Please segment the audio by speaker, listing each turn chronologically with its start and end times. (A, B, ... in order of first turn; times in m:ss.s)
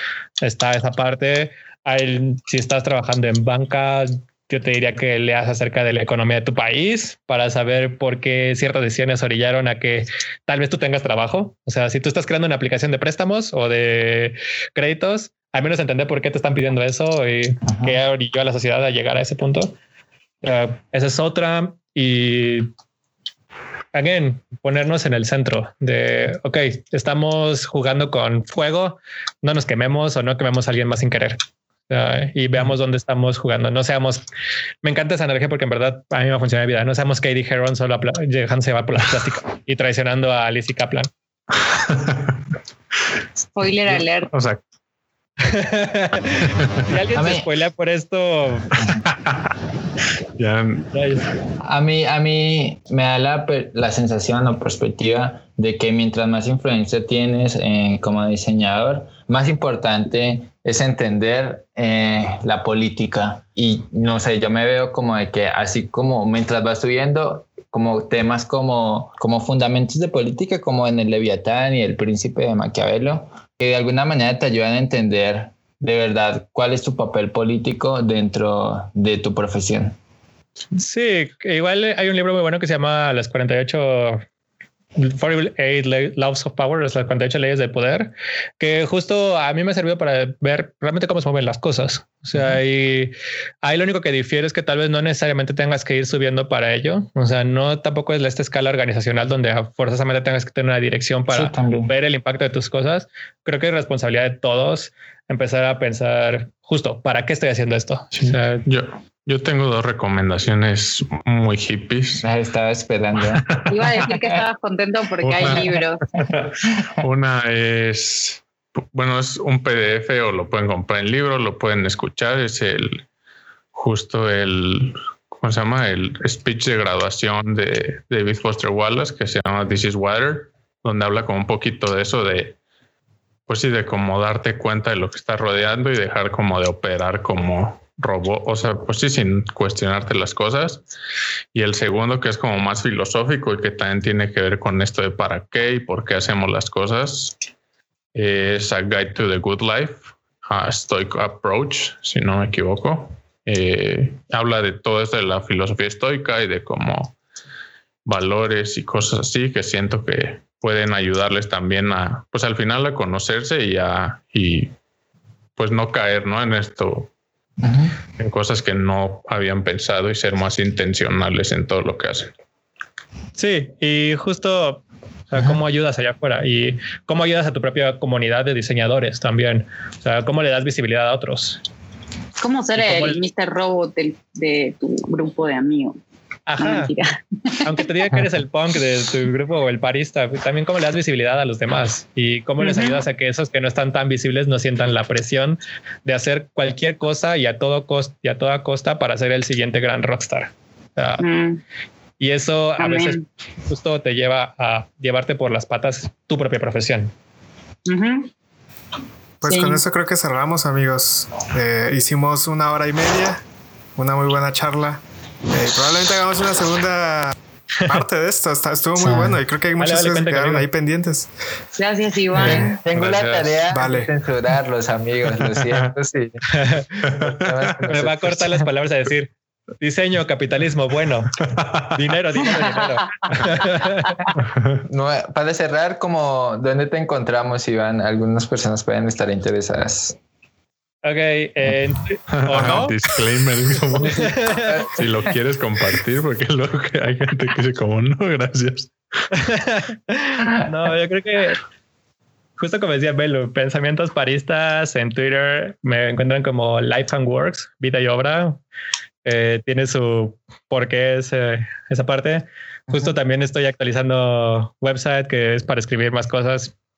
0:00.4-0:19.8 A
0:17.7-0:18.0 B
0:20.4-0:22.7 A
0:23.9-0:34.3 A
0:34.8-0:41.1 A
0:41.7-0:42.4 C
0:43.6-0:44.3 D
0:43.9-0:44.6 C
0:45.4-0:48.8 A
0:46.4-0:46.8 C
0:47.2-0:47.5 B
0:48.8-0:49.6 C
0:50.4-0:50.9 C
0:50.9-0:51.3 A
0:51.6-1:20.0 B
1:20.8-1:24.2 A
1:25.0-1:48.6 A
1:41.3-1:41.9 B
1:48.1-1:52.3 C
1:52.2-1:53.6 B
1:53.3-1:53.8 C
1:53.7-1:56.0 D
1:55.2-2:03.0 C
2:03.7-2:12.6 C
2:13.5-2:20.8 C
2:21.5-2:27.4 C
2:28.1-2:37.2 C
2:38.1-2:44.7 C
2:45.6-2:47.1 C
2:47.6-2:47.9 B
2:48.2-2:52.3 C
2:53.4-3:01.6 A
3:02.4-3:06.0 D
3:02.8-3:03.2 A
3:06.5-3:06.9 A
3:06.6-3:07.7 D
3:07.6-3:21.2 A
3:12.6-3:13.0 D
3:21.2-3:21.6 D
3:22.2-3:27.1 A
3:22.8-3:23.2 D
3:27.9-3:28.3 D
3:29.4-3:33.4 E
3:29.5-3:29.8 D
3:34.0-3:37.4 E
3:37.9-3:41.3 E
3:39.0-3:39.4 B
3:39.8-3:40.7 A
3:41.8-3:42.8 D
3:42.4-3:42.8 E
3:42.4-3:46.4 B
3:42.4-3:43.5 A
3:43.7-3:44.1 E
3:45.6-3:45.9 C
3:46.5-3:46.9 A
3:47.0-3:47.9 C
3:47.1-3:48.4 B
3:47.9-3:51.4 A
3:51.4-3:51.9 C
3:51.9-3:54.2 A
3:54.4-3:54.8 C
3:54.8-4:00.2 B
4:01.0-4:03.0 A
4:02.3-4:08.9 C
4:04.0-4:05.3 B
4:04.0-4:04.8 A
4:09.3-4:11.6 A
4:12.6-4:18.6 A
4:19.2-4:26.7 A